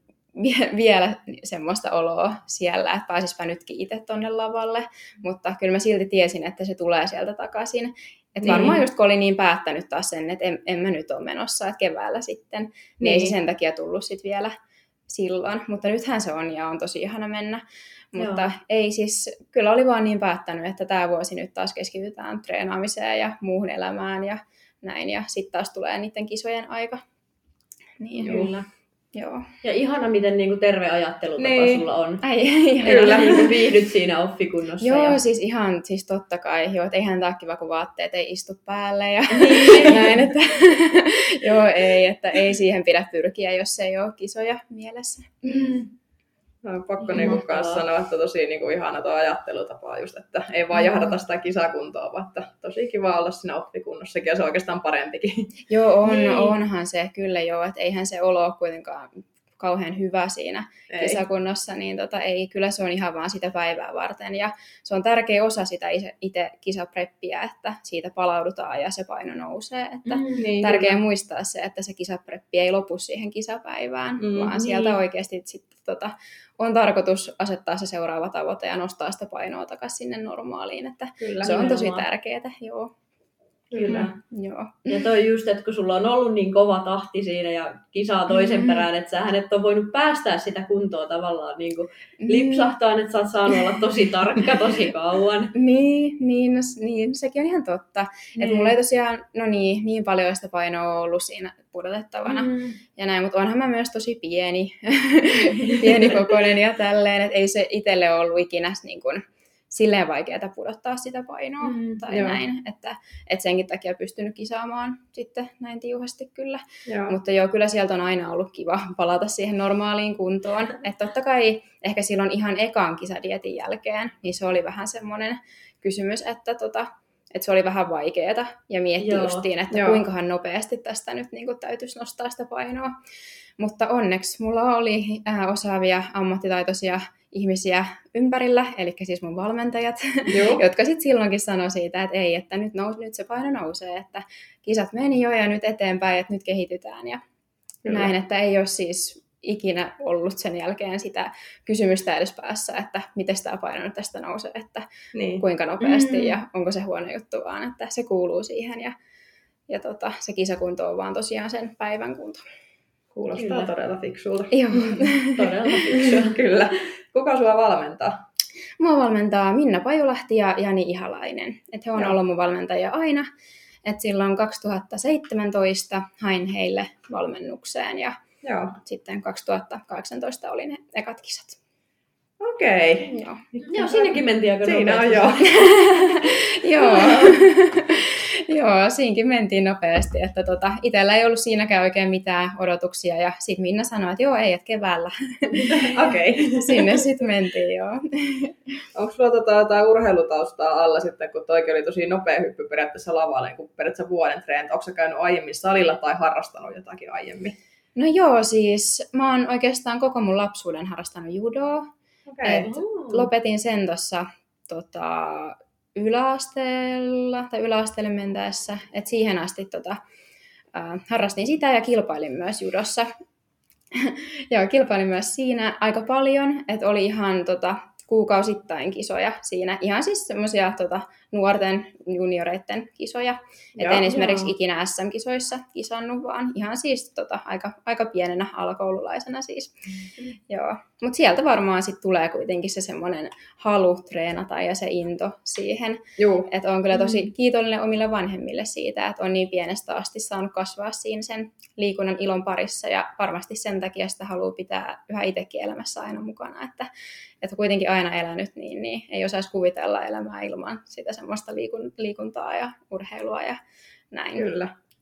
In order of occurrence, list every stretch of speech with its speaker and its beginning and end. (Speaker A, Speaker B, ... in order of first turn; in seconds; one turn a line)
Speaker A: 0.3-14.5
Speaker B: 8.4-8.8
Speaker C: 8.4-8.7
Speaker C: 13.0-13.3
Speaker A: 15.1-27.0
Speaker B: 18.2-18.5
Speaker A: 28.0-28.5
Speaker B: 28.1-28.6
Speaker C: 28.2-28.5
Speaker A: 29.1-29.5
Speaker B: 29.6-32.2
Speaker C: 31.4-31.9
Speaker A: 32.2-33.5
Speaker B: 32.8-35.2
Speaker C: 32.8-33.6
Speaker A: 34.8-45.9
Speaker B: 39.3-40.2
Speaker C: 46.6-55.5
Speaker B: 47.1-47.8
Speaker A: 55.7-82.9
Speaker B: 56.0-56.5
Speaker C: 60.9-61.2
Speaker B: 70.0-70.5
Speaker C: 70.4-71.0
Speaker C: 74.2-74.5
Speaker B: 74.5-75.0
Speaker C: 81.2-81.7
Speaker B: 81.4-82.0
Speaker C: 83.7-84.1
Speaker B: 83.8-84.1
Speaker A: 83.8-85.1
Speaker B: 84.9-95.5
Speaker A: 88.3-88.8
Speaker A: 92.2-92.7
Speaker A: 95.5-132.9
Speaker B: 98.4-98.7
Speaker B: 102.2-102.8
Speaker B: 105.5-106.2
Speaker B: 111.6-112.0
Speaker C: 112.1-112.4
Speaker C: 116.9-117.2
Speaker B: 129.0-129.4
Speaker C: 129.7-130.0
Speaker A: 133.6-147.2
Speaker C: 140.3-140.6
Speaker C: 147.8-148.1
Speaker A: 147.8-154.9
Speaker C: 155.1-155.4
Speaker A: 155.4-158.9
Speaker B: 155.8-156.4
Speaker A: 159.7-162.4
Speaker C: 163.1-165.1
Speaker B: 163.3-163.7
Speaker A: 164.5-165.5
Speaker B: 165.0-166.4
Speaker C: 165.9-168.2
Speaker A: 168.8-173.3
Speaker A: 173.8-178.2
Speaker C: 178.4-178.8
Speaker A: 178.8-181.6
Speaker C: 182.4-184.1
Speaker A: 183.0-184.1
Speaker B: 183.7-185.7
Speaker C: 184.6-185.6
Speaker A: 185.4-195.7
Speaker C: 186.9-187.3
Speaker B: 195.5-196.1
Speaker C: 195.7-197.0
Speaker A: 196.5-198.8
Speaker C: 198.9-207.6
Speaker A: 207.9-211.9
Speaker C: 212.3-212.7
Speaker A: 212.4-220.0
Speaker B: 212.5-213.3
Speaker A: 220.7-223.1
Speaker A: 223.9-239.7
Speaker C: 233.8-234.2
Speaker B: 234.1-234.5
Speaker A: 240.5-256.9
Speaker C: 246.2-246.5
Speaker A: 257.4-264.5
Speaker C: 264.4-264.7